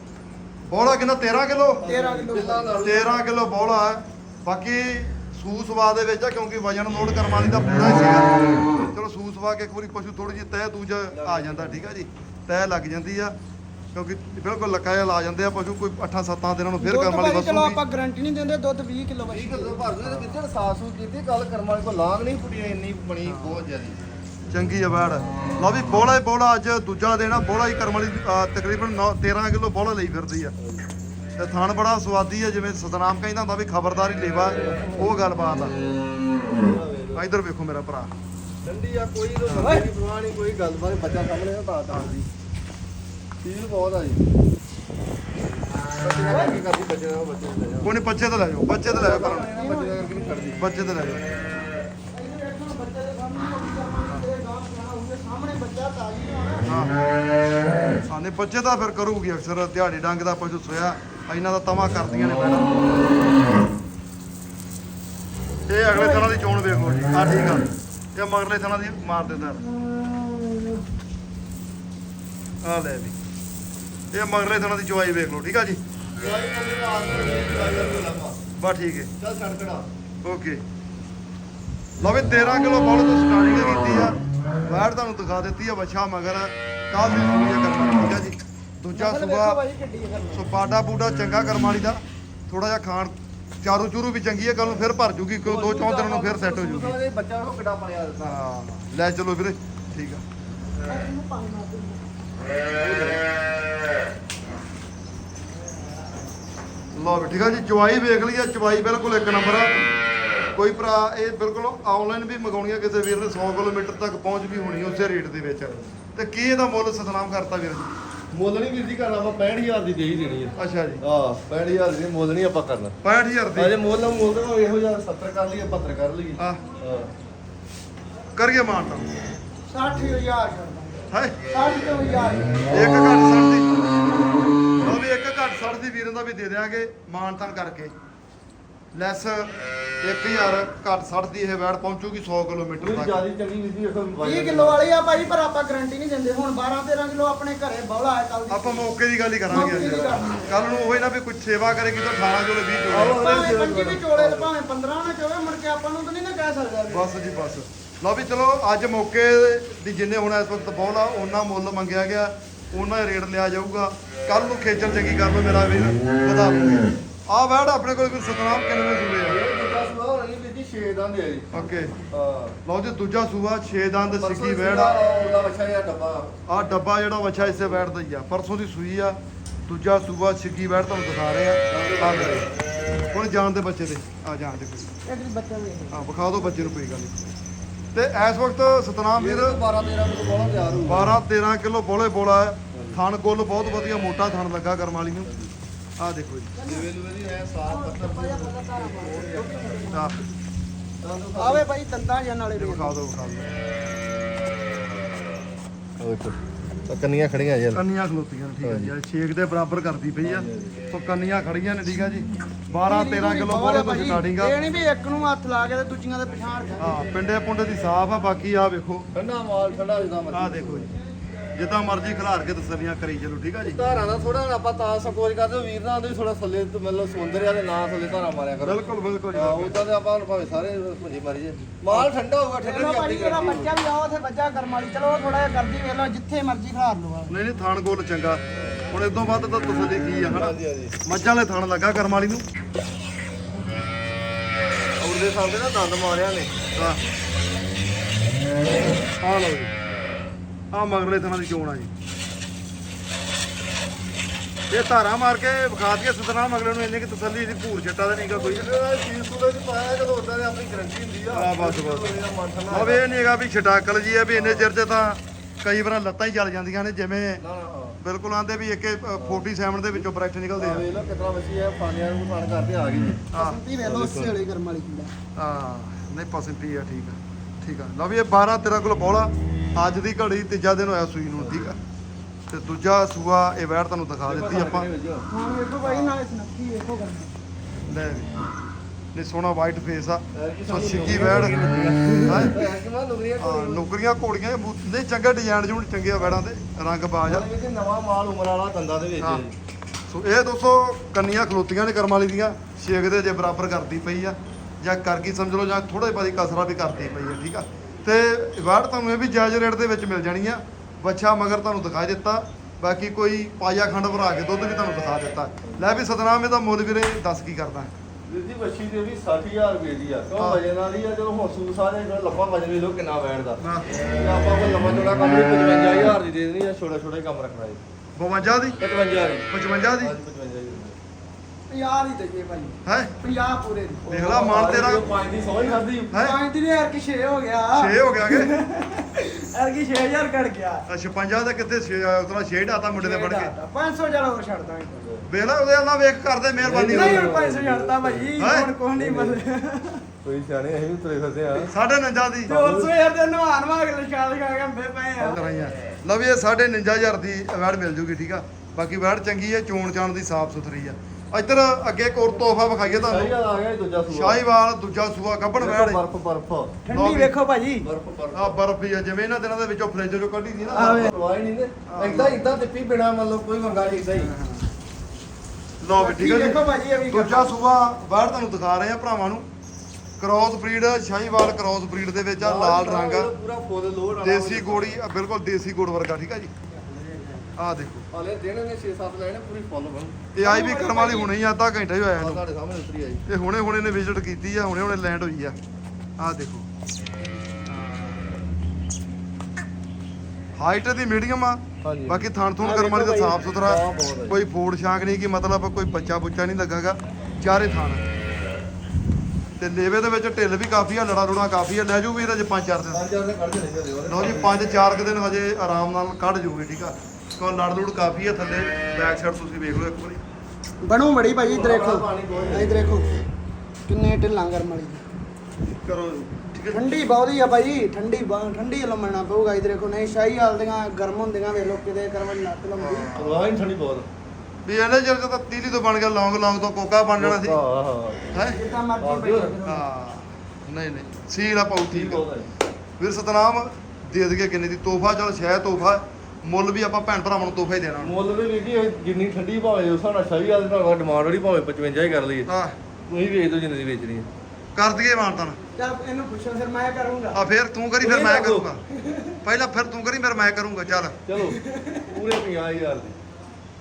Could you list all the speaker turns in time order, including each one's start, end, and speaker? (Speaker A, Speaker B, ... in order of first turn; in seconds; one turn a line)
Speaker A: 0.7-1.9
Speaker B: 1.8-2.8
Speaker C: 1.8-3.3
Speaker A: 2.8-13.3
Speaker C: 11.1-11.8
Speaker A: 13.9-17.8
Speaker B: 16.8-19.9
Speaker C: 19.3-24.0
Speaker A: 20.0-20.4
Speaker A: 23.2-23.6
Speaker A: 24.5-30.5
Speaker C: 30.6-30.9
Speaker A: 31.4-35.7
Speaker C: 34.5-35.1
Speaker C: 36.5-37.2
Speaker A: 37.1-38.1
Speaker C: 38.6-42.1
Speaker B: 39.6-39.9
Speaker A: 41.9-42.2
Speaker C: 43.4-44.2
Speaker C: 46.0-47.9
Speaker B: 46.3-46.6
Speaker A: 47.8-49.5
Speaker C: 48.7-50.6
Speaker B: 49.2-50.4
Speaker A: 50.6-51.3
Speaker B: 52.1-56.7
Speaker A: 56.6-57.0
Speaker A: 58.1-62.9
Speaker A: 65.7-69.6
Speaker B: 65.9-66.3
Speaker B: 69.4-70.8
Speaker A: 72.6-73.1
Speaker A: 74.1-75.8
Speaker C: 76.2-78.4
Speaker A: 78.6-79.1
Speaker C: 79.2-79.9
Speaker A: 80.2-80.6
Speaker A: 82.0-89.6
Speaker B: 88.9-90.4
Speaker A: 90.3-97.0
Speaker C: 95.4-98.4
Speaker A: 98.2-100.2
Speaker B: 100.9-102.0
Speaker C: 102.7-103.2
Speaker A: 106.9-109.9
Speaker A: 110.5-118.0
Speaker C: 118.3-123.0
Speaker A: 120.6-121.0
Speaker A: 123.0-123.8
Speaker C: 123.5-127.1
Speaker A: 128.3-129.1
Speaker B: 129.7-132.8
Speaker A: 131.1-131.4
Speaker A: 132.7-133.8
Speaker A: 134.8-137.9
Speaker A: 138.9-143.2
Speaker C: 142.8-144.8
Speaker B: 144.2-148.9
Speaker A: 148.5-153.2
Speaker B: 149.5-150.5
Speaker C: 149.6-150.2
Speaker C: 152.9-154.5
Speaker B: 153.1-157.1
Speaker A: 156.9-169.4
Speaker C: 169.3-172.6
Speaker A: 171.5-171.9
Speaker A: 172.6-175.0
Speaker C: 174.1-176.3
Speaker A: 176.5-182.5
Speaker C: 177.3-177.8
Speaker C: 181.7-182.5
Speaker A: 183.1-184.9
Speaker B: 185.0-186.0
Speaker A: 185.9-187.2
Speaker A: 187.9-189.6
Speaker C: 189.2-191.2
Speaker A: 190.8-195.3
Speaker C: 192.7-193.0
Speaker C: 195.2-195.5
Speaker A: 196.0-196.5
Speaker B: 196.5-196.9
Speaker C: 196.7-199.9
Speaker B: 197.6-200.3
Speaker A: 199.9-200.2
Speaker C: 201.0-201.7
Speaker B: 201.4-203.0
Speaker A: 202.6-203.5
Speaker C: 206.0-207.8
Speaker A: 207.7-214.6
Speaker C: 208.6-208.9
Speaker C: 210.2-210.8
Speaker B: 212.8-217.2
Speaker A: 216.8-219.1
Speaker C: 219.1-220.9
Speaker A: 220.3-220.9
Speaker A: 221.5-223.8
Speaker C: 223.6-228.8
Speaker A: 228.6-229.9
Speaker C: 229.3-233.7
Speaker A: 231.8-232.1
Speaker B: 232.6-237.3
Speaker A: 237.3-242.4
Speaker C: 238.6-238.8
Speaker C: 240.3-240.9
Speaker C: 245.0-246.5
Speaker A: 249.2-249.7
Speaker A: 250.7-251.9
Speaker A: 254.7-258.7
Speaker C: 258.3-263.0
Speaker A: 261.3-262.1
Speaker A: 262.7-267.4
Speaker C: 264.3-264.7
Speaker C: 267.4-268.0
Speaker A: 268.0-270.9
Speaker C: 269.2-269.5
Speaker C: 270.6-273.3
Speaker A: 273.3-273.6
Speaker B: 273.4-275.1
Speaker C: 273.8-274.3
Speaker A: 275.4-281.8
Speaker C: 281.4-281.8
Speaker A: 282.5-284.9
Speaker C: 284.2-285.3
Speaker B: 285.3-287.3
Speaker A: 287.9-288.4
Speaker A: 289.1-291.6
Speaker C: 290.3-293.8
Speaker A: 292.3-292.6
Speaker A: 293.4-297.5
Speaker C: 297.2-299.5
Speaker A: 300.1-317.9
Speaker C: 318.3-327.8
Speaker A: 320.4-320.6
Speaker A: 323.6-323.9
Speaker A: 328.1-328.8
Speaker C: 328.8-330.9
Speaker A: 329.5-330.1
Speaker B: 331.7-334.1
Speaker A: 332.8-333.1
Speaker A: 334.1-335.1
Speaker C: 334.1-336.1
Speaker A: 336.1-336.4
Speaker B: 336.1-340.9
Speaker A: 337.7-338.5
Speaker A: 340.9-343.5
Speaker B: 342.9-345.1
Speaker A: 345.3-347.3
Speaker C: 346.6-348.3
Speaker B: 346.8-350.0
Speaker A: 348.4-348.7
Speaker C: 348.9-349.4
Speaker C: 350.2-351.7
Speaker A: 351.7-352.5
Speaker B: 352.4-355.4
Speaker C: 352.5-352.9
Speaker A: 355.2-363.3
Speaker C: 362.8-364.4
Speaker A: 364.1-366.0
Speaker C: 365.6-366.7
Speaker B: 366.9-367.9
Speaker A: 366.9-367.3
Speaker C: 367.8-368.6
Speaker A: 368.3-371.1
Speaker C: 370.7-374.3
Speaker B: 370.7-371.1
Speaker A: 371.9-372.5
Speaker A: 374.1-374.7
Speaker A: 375.8-379.5
Speaker B: 375.9-377.5
Speaker A: 380.2-383.3
Speaker C: 382.4-385.0
Speaker A: 384.2-386.5
Speaker A: 387.6-388.1
Speaker C: 388.1-390.2
Speaker A: 390.3-392.4
Speaker B: 390.4-391.3
Speaker C: 392.2-393.2
Speaker A: 393.2-395.6
Speaker A: 396.2-396.6
Speaker A: 397.7-398.3
Speaker A: 400.6-408.0
Speaker C: 401.8-402.3
Speaker B: 402.6-403.4
Speaker C: 402.8-404.4
Speaker A: 409.6-413.0
Speaker C: 412.9-414.6
Speaker A: 414.1-420.2
Speaker B: 420.8-423.1
Speaker C: 421.4-422.9
Speaker B: 423.9-425.0
Speaker A: 425.8-426.8
Speaker B: 426.7-433.1
Speaker A: 432.8-433.5
Speaker C: 433.1-434.1
Speaker A: 434.6-437.6
Speaker C: 437.2-438.2
Speaker A: 438.3-438.6
Speaker B: 438.5-439.8
Speaker C: 439.0-439.5
Speaker A: 439.6-442.2
Speaker C: 441.9-442.5
Speaker A: 443.0-448.1
Speaker C: 448.0-452.5
Speaker A: 452.5-452.7
Speaker C: 453.1-454.3
Speaker A: 454.7-455.6
Speaker B: 455.8-457.4
Speaker A: 457.3-458.8
Speaker C: 458.0-458.7
Speaker B: 458.9-459.3
Speaker A: 459.4-461.2
Speaker C: 461.2-463.2
Speaker B: 461.3-462.1